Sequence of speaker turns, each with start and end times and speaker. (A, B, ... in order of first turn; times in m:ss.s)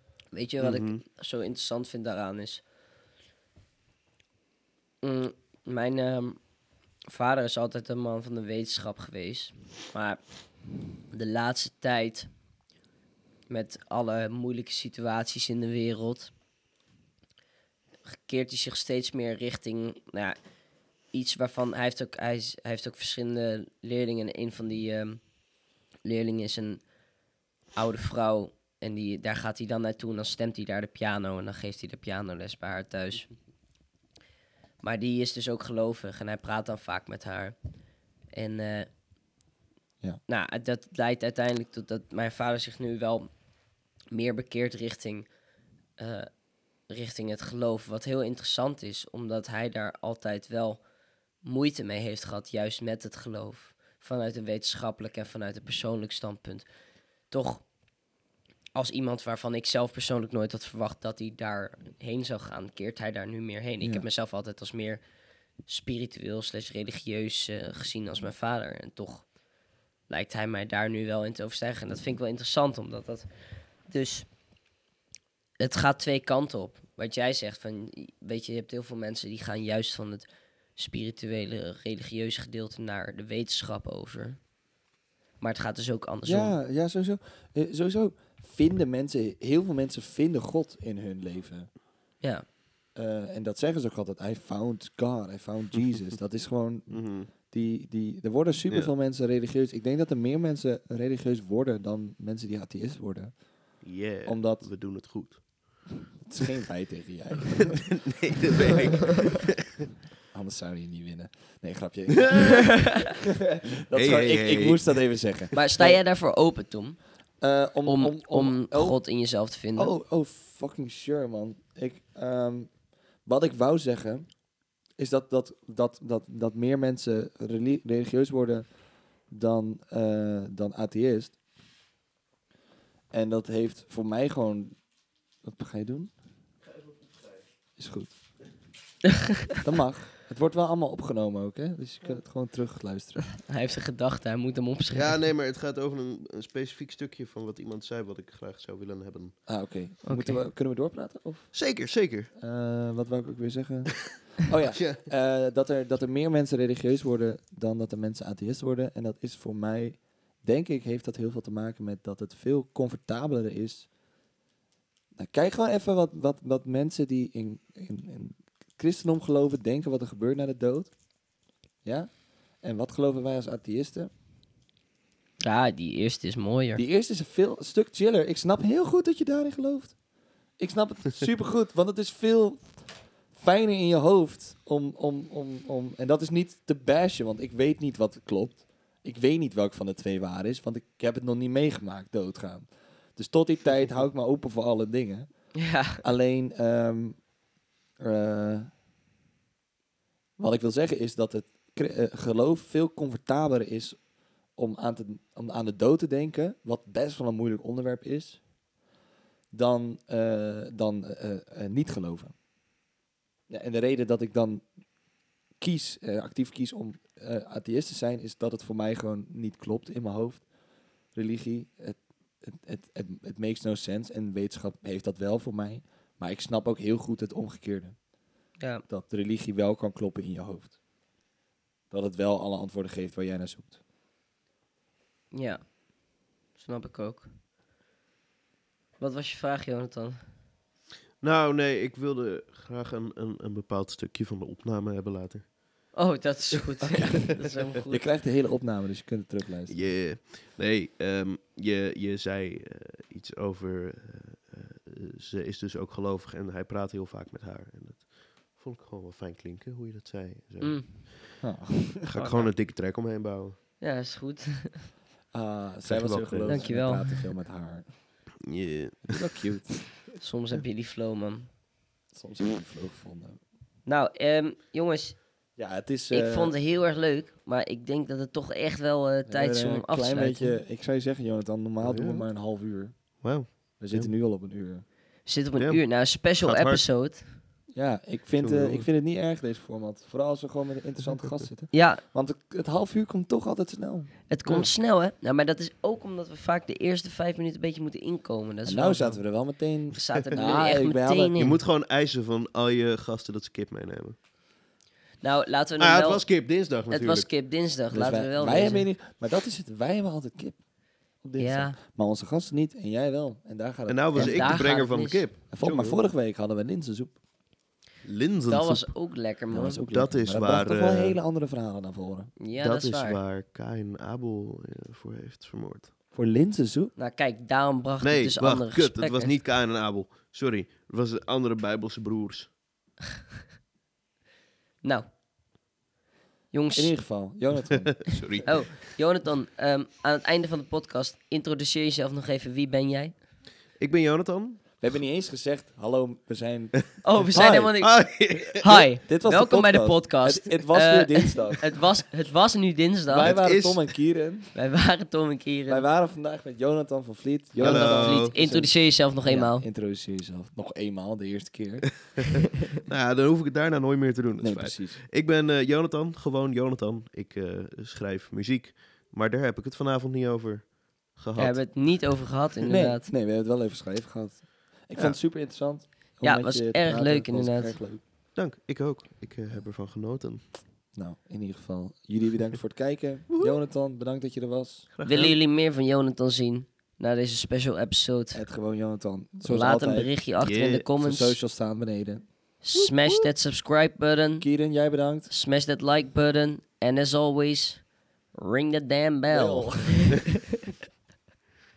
0:00.3-0:02.6 A
0:00.6-0:01.0 B
0:05.0-0:06.4 A
0:07.1-0:10.2 A
0:11.1-0:12.3 A
0:13.5-0:16.3 A
0:18.1-0:20.4 A
0:21.1-0:25.2 A
0:26.0-0:26.8 A
0:27.8-0:33.3 A
0:34.8-0:37.6 A
0:38.3-0:38.9 A
0:40.3-0:43.3 A
0:44.1-0:45.3 A
0:46.0-0:46.3 A
0:46.9-0:50.8 A
0:51.4-0:56.7 A
0:57.3-0:57.6 A
0:58.8-1:05.0 A
1:05.7-1:09.3 A
1:10.1-1:13.3 A
1:13.8-1:14.3 A
1:15.6-1:24.4 A
1:25.4-1:26.5 A
1:26.2-1:31.7 C
1:33.0-1:43.4 C
1:36.9-1:37.3 B
1:43.8-1:45.4 B
1:44.2-1:44.7 C
1:46.2-1:48.8 C
1:47.6-1:49.6 B
1:50.3-1:56.0 C
1:52.3-1:52.6 B
1:53.9-1:54.8 B
1:55.5-1:57.0 A
1:57.4-1:59.0 C
1:57.9-1:59.9 A
1:59.8-2:02.7 C
2:03.2-2:04.3 C
2:05.0-2:08.7 C
2:09.3-2:11.4 C
2:13.1-2:14.8 C
2:15.4-2:16.1 C
2:17.8-2:18.1 C
2:19.6-2:23.4 C
2:23.4-2:25.2 A
2:24.9-2:29.4 B
2:29.5-2:31.8 C
2:30.1-2:30.4 A
2:31.5-2:32.3 B
2:32.3-2:43.9 C
2:34.8-2:35.0 B
2:45.2-2:50.9 C
2:51.8-2:54.1 C
2:55.4-2:56.8 A
2:56.8-3:00.0 C
3:00.6-3:17.2 C
3:15.6-3:16.0 A
3:18.0-3:18.7 C
3:20.4-3:24.0 C
3:24.6-3:28.4 C
3:29.5-3:32.3 C
3:33.5-3:34.6 C
3:35.6-3:40.4 C
3:41.1-3:48.0 C
3:48.6-3:48.8 A
3:48.9-3:50.8 C
3:51.9-3:53.8 C
3:55.3-3:55.8 A
3:56.6-3:57.3 A
3:59.0-4:00.2 A
4:01.2-4:05.9 B
4:05.9-4:08.0 A
4:07.9-4:09.8 C
4:09.7-4:21.4 B
4:20.6-4:21.4 A
4:21.4-4:22.0 C
4:22.0-4:23.6 B
4:22.1-4:22.5 A
4:23.8-4:24.9 A
4:25.3-4:28.0 C
4:25.8-4:26.7 B
4:26.5-4:27.2 A
4:28.4-4:29.1 B
4:29.0-4:30.0 C
4:30.2-4:31.5 A
4:32.1-4:33.4 C
4:33.9-4:35.3 A
4:35.6-4:36.6 C
4:36.1-4:40.6 A
4:39.3-4:44.8 C
4:41.8-4:42.3 B
4:43.2-4:44.1 B
4:45.3-4:47.3 A
4:45.6-4:46.8 B
4:47.7-4:54.1 C
4:48.4-4:48.9 B
4:51.1-4:51.4 B
4:51.7-4:52.0 A
4:54.3-4:59.4 A
4:58.6-5:01.4 C
4:59.9-5:01.6 A
5:01.4-5:04.2 B
5:05.2-5:08.8 A
5:05.8-5:07.3 B
5:07.9-5:10.6 C
5:11.2-5:14.7 C
5:11.4-5:11.8 A
5:13.9-5:16.0 B
5:14.1-5:15.3 A
5:15.5-5:17.2 C
5:18.0-5:18.9 B
5:18.5-5:19.8 A
5:19.5-5:22.3 C
5:19.9-5:21.2 B
5:22.4-5:23.2 A
5:22.6-5:25.9 B
5:26.1-5:26.9 C
5:27.0-5:29.3 A
5:28.0-5:32.5 B
5:36.5-5:37.1 A
5:36.7-5:38.5 C
5:38.0-5:38.8 B
5:38.4-5:43.2 A
5:43.8-5:44.6 B
5:44.8-5:47.7 C
5:47.0-5:53.4 A
5:47.3-5:48.9 B
5:49.0-5:51.8 C
5:53.1-5:54.5 C
5:53.2-5:53.9 B
5:54.5-5:55.9 A
5:55.7-6:02.2 C
5:57.6-5:58.3 B
5:57.6-5:59.7 A
6:02.9-6:11.7 B
6:04.4-6:05.0 C
6:11.4-6:13.1 A
6:12.7-6:18.0 C
6:16.2-6:17.8 A
6:18.4-6:20.4 B
6:21.0-6:25.3 C
6:23.3-6:23.6 B
6:24.9-6:25.4 B
6:25.1-6:28.4 A
6:28.3-6:30.1 C
6:29.4-6:31.4 A
6:30.4-6:30.9 B
6:31.0-6:32.3 C
6:32.6-6:34.5 A
6:32.8-6:33.3 B
6:34.4-6:35.3 C
6:35.3-6:40.3 A
6:39.3-6:40.2 C